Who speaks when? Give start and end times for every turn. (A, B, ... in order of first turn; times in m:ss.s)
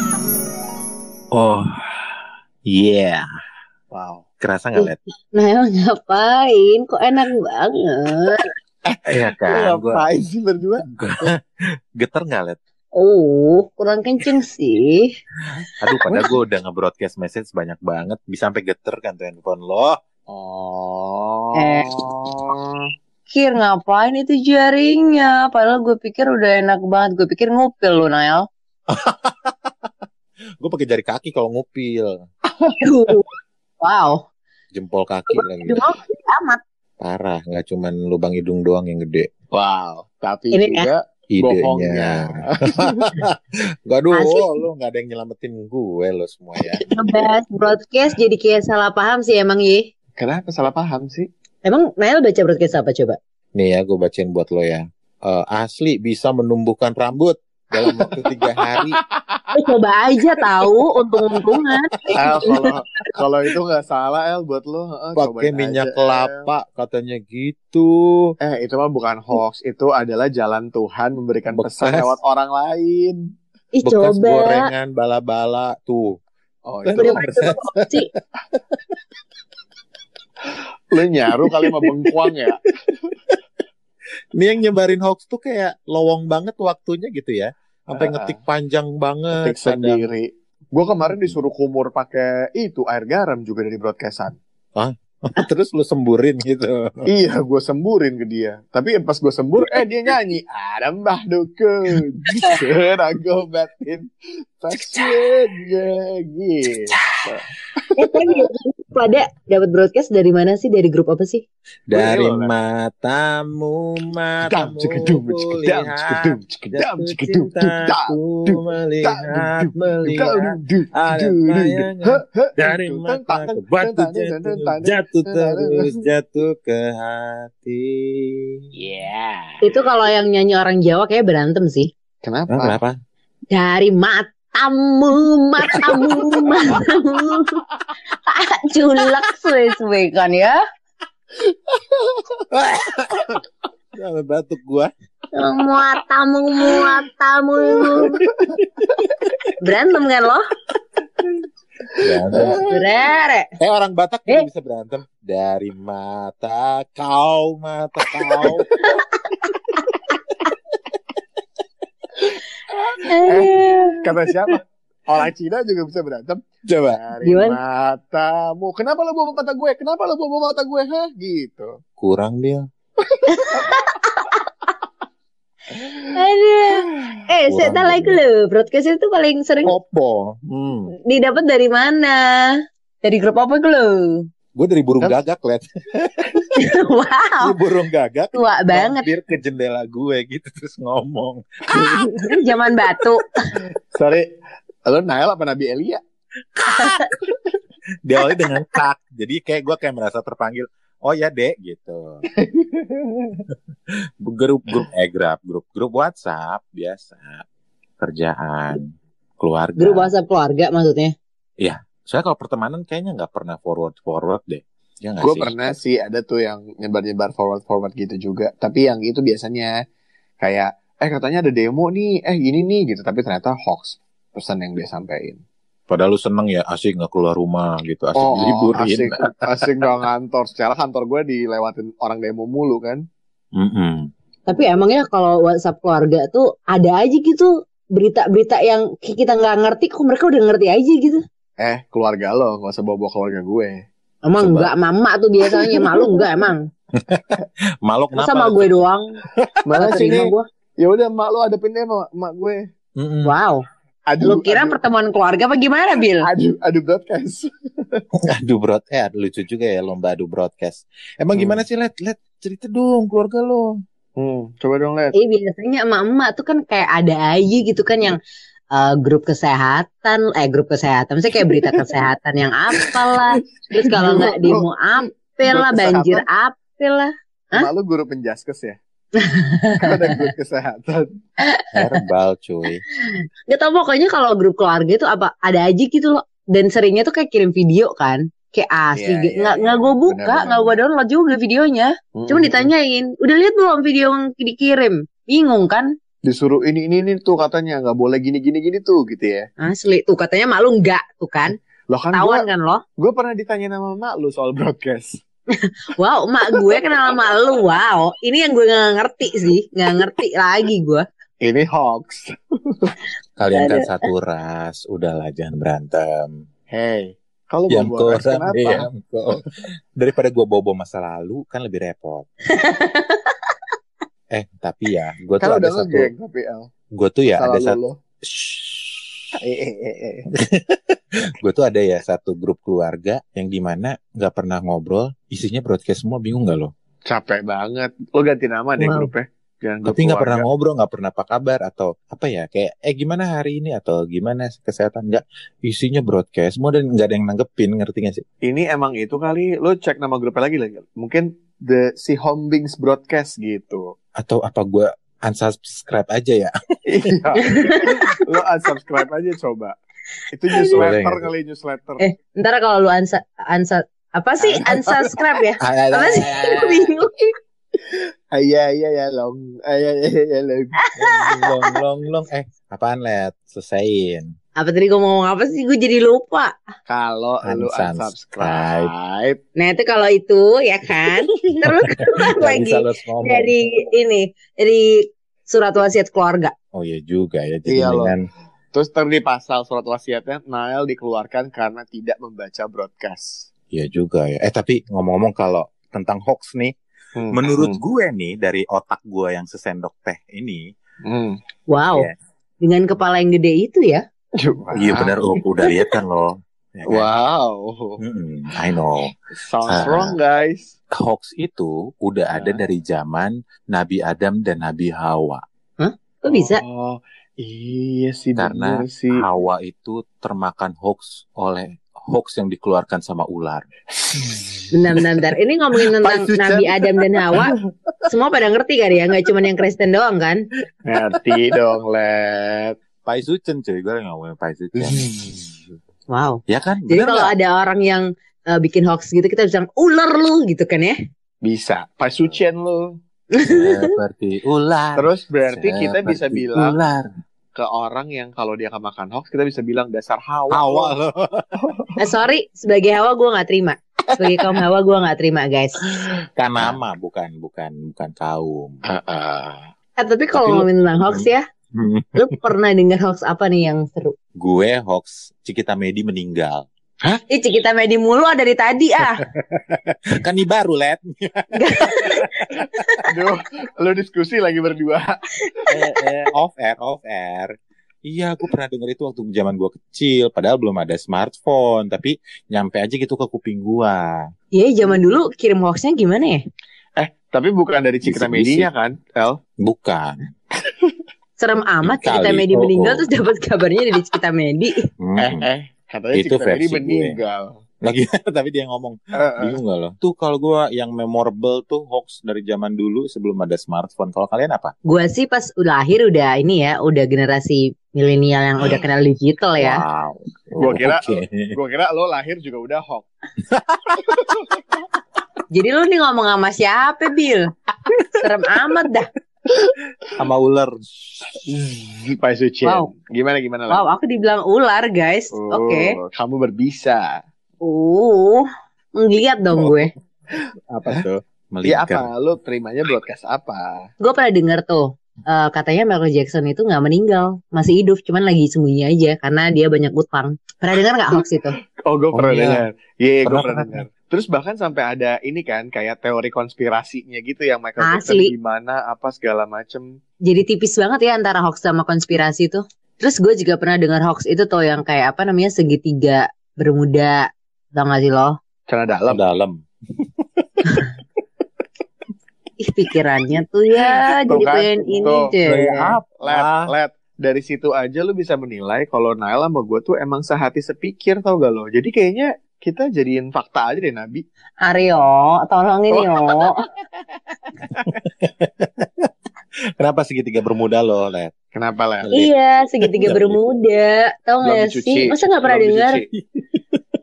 0:01.3-0:01.7 A
0:02.6-0:03.2 A
0:03.9-0:04.2 B
0:04.4-0:05.0 A
0:04.8-0:08.4 C
0:08.8-0:10.9 B
0:09.1-0:10.0 A
0:10.9-0:11.4 A
0:12.0-0:12.6 A
0:12.9-0:15.1 C
0:15.8-0:20.0 A
0:20.3-0:22.8 B
0:21.5-0:21.8 C
0:23.3-0:28.4 C
0:28.9-0:29.5 A
0:30.6-0:32.2 A
0:32.6-0:33.1 B
0:32.8-0:33.3 C
0:33.8-0:34.2 C
0:34.7-0:35.8 A
0:35.3-0:36.6 C
0:37.0-0:39.3 A
0:39.5-0:43.2 B
0:40.5-0:40.9 C
0:41.3-0:46.8 A
0:44.1-0:44.6 C
0:46.6-0:47.1 B
0:46.9-0:49.8 C
0:50.2-0:51.3 B
0:51.6-0:53.2 C
0:53.6-0:59.0 A
0:57.8-0:59.6 B
0:59.5-1:02.4 C
1:02.0-1:02.7 A
1:02.1-1:06.5 B
1:05.2-1:08.3 A
1:08.4-1:13.2 B
1:11.5-1:12.2 A
1:13.7-1:14.7 C
1:13.8-1:16.2 A
1:16.6-1:17.2 B
1:16.8-1:17.8 A
1:17.0-1:18.1 C
1:20.9-1:22.6 B
1:21.4-1:22.5 A
1:24.4-1:30.0 A
1:27.9-1:28.4 B
1:29.4-1:34.4 B
1:34.8-1:37.0 A
1:37.0-1:44.1 B
1:44.6-1:48.3 B
1:44.7-1:45.3 A
1:46.9-1:47.2 A
1:48.0-1:51.4 C
1:51.9-2:08.5 A
1:51.9-1:52.5 B
1:54.4-2:05.9 B
2:08.8-2:09.7 B
2:09.6-2:11.9 C
2:12.2-2:12.8 B
2:12.5-2:12.9 A
2:13.5-2:17.6 C
2:18.2-2:20.6 C
2:22.5-2:23.3 A
2:24.0-2:24.9 A
2:25.3-2:28.2 C
2:28.2-2:28.5 B
2:29.6-2:30.4 C
2:31.9-2:32.8 B
2:32.0-2:32.6 A
2:32.6-2:33.5 C
2:33.6-2:38.7 A
2:38.2-2:38.9 B
2:42.9-2:51.7 B
2:43.0-2:44.0 C
2:46.6-2:47.0 A
2:47.2-2:47.6 C
2:52.0-2:52.6 A
2:53.0-2:53.6 B
2:53.3-2:54.3 C
2:56.1-2:59.8 C
2:57.5-2:58.2 A
2:59.6-3:00.9 A
3:01.0-3:02.4 C
3:03.0-3:04.2 C
3:04.6-3:06.4 A
3:06.6-3:07.5 C
3:07.4-3:12.3 A
3:08.3-3:09.1 C
3:11.7-3:13.3 C
3:13.9-3:14.3 B
3:14.8-3:16.0 B
3:16.6-3:17.3 A
3:16.8-3:17.1 C
3:18.0-3:22.2 A
3:22.3-3:23.4 B
3:24.2-3:27.4 A
3:28.0-3:28.9 A
3:29.4-3:30.1 A
3:29.8-3:31.1 C
3:31.6-3:35.8 A
3:35.2-3:39.7 B
3:40.4-3:45.4 B
3:45.9-3:49.7 A
3:48.2-3:53.0 B
3:53.5-3:54.1 A
3:54.5-4:01.2 C
4:01.6-4:03.8 B
4:04.2-4:06.6 C
4:04.4-4:04.7 A
4:07.0-4:08.7 A
4:08.2-4:09.0 C
4:09.6-4:12.6 B
4:09.7-4:10.4 C
4:13.0-4:13.3 A
4:13.2-4:13.6 C
4:14.1-4:14.8 B
4:14.2-4:16.2 C
4:16.1-4:18.0 B
4:18.3-4:23.7 A
4:21.3-4:21.6 B
4:24.2-4:25.1 B
4:25.1-4:28.2 C
4:28.7-4:37.7 C
4:33.9-4:34.6 B
4:35.4-4:36.2 B
4:37.5-4:38.8 B
4:39.2-4:40.2 C
4:39.8-4:41.1 B
4:41.4-4:41.8 C
4:41.7-4:42.8 A
4:43.5-4:55.9 C
4:48.9-4:50.8 B
4:52.2-4:52.7 B
4:56.2-4:59.5 B
4:59.6-5:01.5 C
5:01.9-5:02.4 B
5:02.1-5:02.8 C
5:03.0-5:05.2 B
5:06.0-5:11.0 C
5:06.5-5:06.8 B
5:11.4-5:12.9 B
5:13.4-5:16.4 A
5:13.5-5:14.0 C
5:16.7-5:18.9 B
5:17.7-5:19.4 A
5:20.0-5:22.2 A
5:22.5-5:23.3 C
5:24.3-5:26.1 A
5:25.4-5:26.7 B
5:26.9-5:29.2 A
5:27.4-5:28.0 B
5:29.4-5:30.3 B
5:30.3-5:36.7 A
5:37.0-5:40.4 B
5:38.8-5:39.1 C
5:39.8-5:48.2 A
5:48.4-5:53.9 B
5:54.2-5:56.5 A
5:56.9-5:59.7 B
5:57.4-5:57.8 C
6:00.3-6:02.0 B
6:00.5-6:00.8 C
6:00.7-6:01.3 A
6:02.0-6:07.2 C
6:04.4-6:05.0 B
6:05.6-6:06.9 A
6:07.8-6:10.8 B
6:10.8-6:11.5 C
6:11.0-6:14.3 A
6:14.6-6:16.6 C
6:16.9-6:19.4 B
6:17.4-6:18.9 A
6:19.6-6:26.5 C
6:22.2-6:23.5 A
6:26.7-6:28.2 A
6:27.7-6:28.1 B
6:28.7-6:33.5 B
6:33.7-6:36.7 A
6:37.2-6:37.8 B
6:37.3-6:40.6 A
6:41.0-6:41.4 B
6:41.7-6:42.1 C
6:42.6-6:44.0 C
6:44.4-6:45.9 B
6:44.7-6:47.1 A
6:46.9-6:48.0 B
6:48.0-6:49.1 A
6:49.4-6:50.7 B
6:49.6-6:50.2 A
6:50.9-6:55.4 A
6:52.3-6:52.6 B
6:55.8-6:56.6 C
6:56.3-6:59.2 B
6:58.4-7:03.6 A
7:04.0-7:04.6 B
7:04.7-7:07.5 C
7:05.8-7:07.5 A
7:08.1-7:10.4 C
7:10.8-7:12.8 B
7:11.1-7:11.4 A
7:13.0-7:15.5 A
7:14.7-7:15.4 B
7:16.1-7:21.0 C
7:16.5-7:17.3 A
7:21.4-7:22.9 B
7:23.3-7:23.9 C
7:23.4-7:27.1 A
7:25.0-7:26.8 B
7:27.5-7:30.9 B
7:30.5-7:31.5 A
7:31.6-7:31.9 B
7:32.0-7:35.8 C
7:36.4-7:38.8 A
7:38.9-7:39.7 B
7:40.0-7:41.4 C
7:40.3-7:42.4 A
7:42.2-7:44.1 C
7:44.4-7:46.6 A
7:47.3-7:49.2 C
7:49.2-7:52.8 A
7:51.5-7:52.5 C
7:53.0-7:55.2 B
7:55.7-7:57.5 A
7:58.0-8:04.2 A
8:04.5-8:06.4 C
8:07.0-8:09.4 B
8:08.0-8:08.7 A
8:09.6-8:10.2 A
8:10.6-8:10.9 B
8:11.4-8:14.9 C
8:11.8-8:13.1 A
8:15.0-8:15.5 A
8:15.2-8:17.6 B
8:16.1-8:17.2 A
8:17.8-8:24.7 A
8:19.2-8:19.6 B
8:24.9-8:29.8 C
8:29.6-8:31.5 A
8:30.6-8:33.0 B
8:33.5-8:34.3 A
8:35.5-8:37.5 C
8:38.2-8:39.1 C
8:40.2-8:41.2 A
8:41.4-8:43.8 B
8:42.6-8:42.9 C
8:43.7-8:45.9 C
8:45.3-8:47.1 B
8:47.6-8:49.9 C
8:50.7-8:52.1 A
8:51.6-8:53.9 B
8:54.0-9:01.6 C
9:01.8-9:09.8 B
9:02.1-9:02.6 A
9:03.2-9:03.8 A
9:07.8-9:08.3 C
9:10.2-9:17.2 C
9:17.7-9:18.4 C
9:18.7-9:19.2 B
9:19.1-9:19.6 A
9:20.6-9:20.9 A
9:22.6-9:26.0 C
9:24.3-9:25.3 B
9:25.4-9:26.7 A
9:26.2-9:34.2 B
9:34.6-9:36.6 C
9:35.9-9:36.5 B
9:37.8-9:39.1 A
9:39.8-9:41.3 A
9:41.5-9:42.1 B
9:42.0-9:42.3 A
9:42.1-9:46.0 C
9:43.0-9:43.4 A
9:44.4-9:46.1 B
9:46.2-9:46.8 A